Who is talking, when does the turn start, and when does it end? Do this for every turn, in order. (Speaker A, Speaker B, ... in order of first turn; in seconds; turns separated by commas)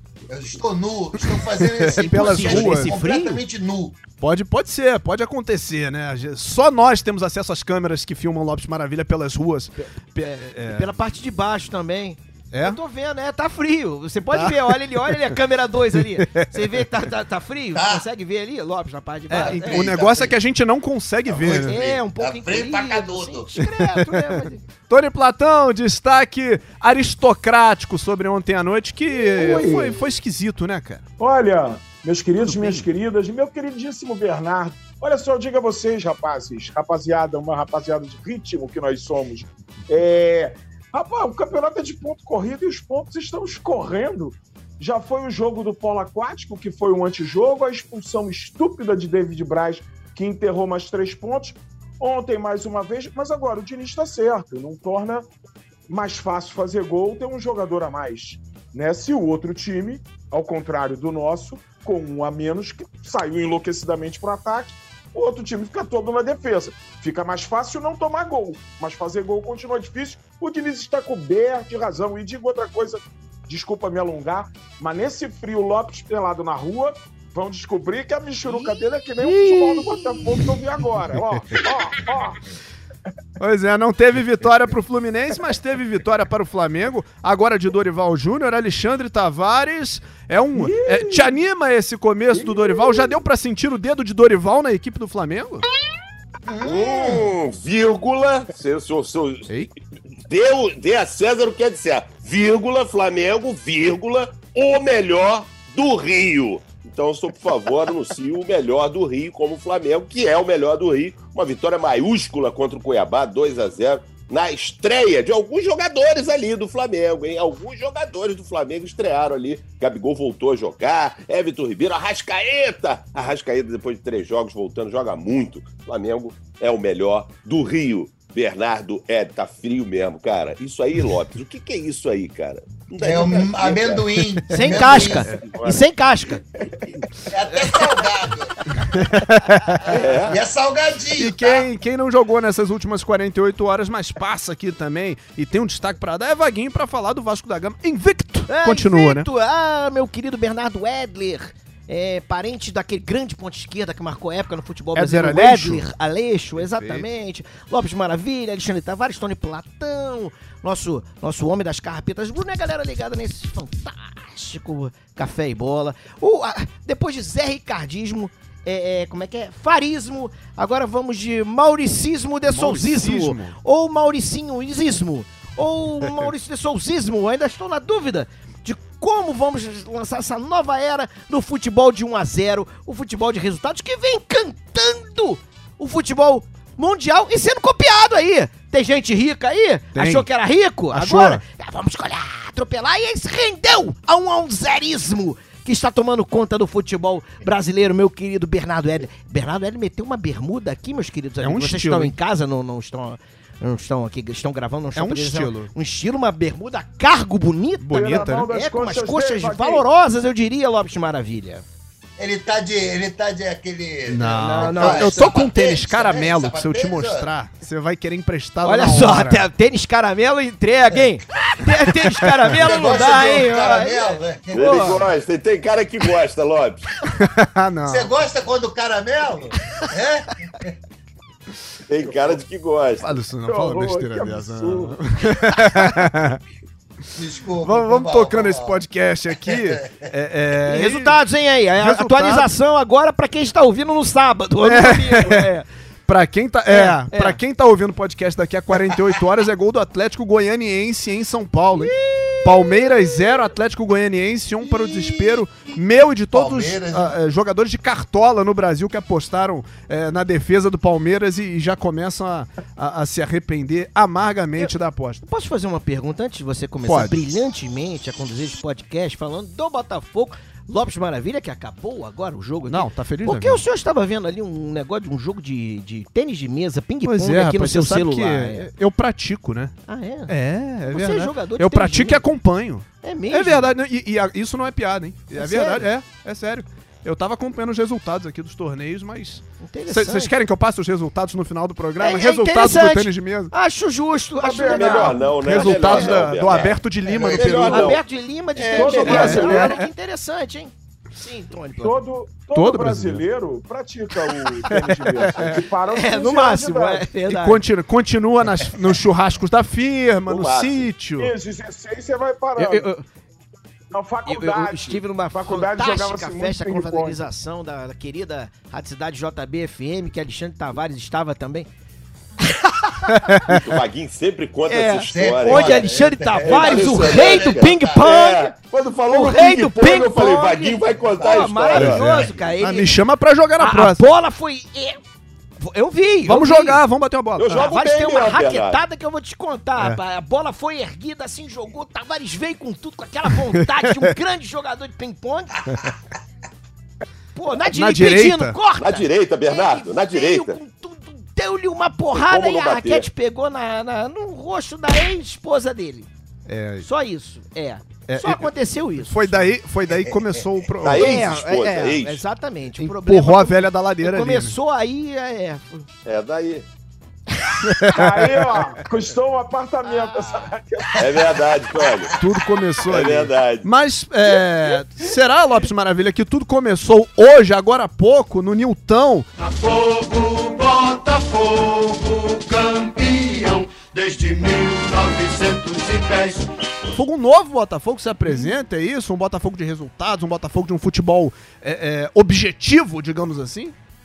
Speaker A: 0.3-4.0, Speaker B: 1.7-2.9, Speaker C: 1.9-3.4, Speaker B: 4.2-10.9, Speaker C: 10.2-19.9, Speaker B: 12.5-12.8, Speaker B: 14.3-15.4, Speaker B: 16.0-16.9, Speaker A: 17.7-18.1, Speaker B: 19.3-21.8, Speaker A: 19.4-20.3, Speaker A: 21.3-23.5, Speaker C: 21.6-24.7, Speaker B: 23.8-31.0, Speaker D: 29.3-30.0, Speaker D: 31.2-55.3, Speaker B: 32.4-32.8, Speaker D: 55.9-82.4, Speaker B: 79.2-80.2, Speaker B: 81.1-81.6, Speaker B: 83.4-95.6, Speaker D: 90.5-91.4, Speaker D: 92.4-93.1, Speaker A: 96.4-97.3, Speaker E: 96.6-99.5, Speaker E: 100.3-134.1, Speaker A: 133.0-135.3, Speaker C: 134.5-136.4, Speaker B: 134.5-135.5, Speaker E: 135.3-135.8, Speaker A: 137.3-138.6, Speaker B: 138.9-140.0, Speaker E: 139.9-140.4, Speaker A: 139.9-141.7, Speaker B: 141.2-149.3, Speaker C: 148.5-211.6, Speaker B: 154.9-155.9, Speaker B: 156.6-157.1, Speaker B: 172.5-173.6, Speaker B: 189.9-190.3, Speaker B: 190.9-191.4, Speaker B: 201.4-202.1, Speaker B: 204.9-205.7, Speaker B: 207.8-208.5, Speaker D: 207.9-209.8, Speaker A: 212.2-217.3, Speaker B: 214.1-219.4, Speaker C: 214.3-215.2, Speaker C: 218.6-224.2, Speaker A: 222.5-225.0, Speaker E: 224.5-226.9, Speaker B: 224.6-224.9, Speaker B: 227.1-228.1, Speaker A: 227.8-230.8, Speaker E: 231.9-233.1, Speaker B: 233.0-236.4, Speaker D: 233.4-235.0, Speaker A: 237.1-240.1, Speaker B: 237.6-241.2, Speaker C: 240.7-245.7, Speaker B: 241.8-242.5, Speaker B: 244.6-245.5, Speaker B: 246.1-251.9, Speaker C: 246.7-247.4, Speaker C: 251.7-253.4, Speaker B: 252.4-265.2, Speaker A: 254.6-255.4, Speaker A: 256.3-257.1, Speaker C: 264.6-278.7, Speaker B: 266.8-267.2, Speaker B: 272.7-273.6, Speaker B: 277.1-279.7, Speaker C: 279.9-280.3, Speaker B: 280.3-293.5, Speaker C: 280.8-282.2, Speaker C: 283.0-283.7, Speaker C: 285.3-285.9, Speaker C: 289.6-290.4, Speaker C: 292.0-296.2, Speaker D: 294.4-295.3, Speaker E: 294.7-298.0, Speaker B: 295.4-297.9, Speaker A: 297.1-297.9, Speaker C: 297.7-301.9, Speaker E: 298.6-299.6, Speaker D: 298.8-299.8, Speaker B: 299.0-299.7, Speaker D: 301.8-307.1, Speaker B: 302.6-303.2, Speaker B: 304.7-305.6, Speaker C: 305.4-307.6, Speaker B: 307.3-311.3, Speaker E: 310.3-310.9, Speaker D: 311.2-312.9, Speaker C: 312.6-313.1, Speaker D: 313.9-317.2, Speaker C: 314.2-321.7, Speaker C: 322.4-323.5, Speaker B: 323.1-323.7, Speaker E: 323.5-325.8, Speaker C: 324.7-328.5, Speaker A: 325.1-328.1, Speaker E: 326.4-332.0, Speaker C: 329.1-332.9, Speaker B: 331.7-334.0, Speaker A: 331.9-332.4, Speaker C: 333.6-335.0, Speaker C: 335.6-336.8, Speaker B: 336.2-337.7, Speaker E: 337.4-338.8, Speaker C: 337.5-345.6, Speaker C: 347.4-356.1, Speaker B: 347.7-348.5, Speaker E: 348.8-350.6, Speaker E: 352.1-353.1, Speaker B: 356.5-356.9, Speaker C: 356.8-359.5, Speaker B: 358.1-361.3, Speaker A: 359.9-360.4, Speaker E: 360.8-362.2, Speaker C: 360.8-365.9, Speaker B: 362.8-364.5, Speaker E: 366.1-366.6, Speaker B: 367.6-368.7, Speaker D: 367.9-371.4, Speaker C: 369.9-370.4, Speaker E: 371.0-372.2, Speaker B: 372.2-379.3, Speaker E: 372.9-373.7, Speaker F: 379.4-386.5, Speaker B: 386.9-393.8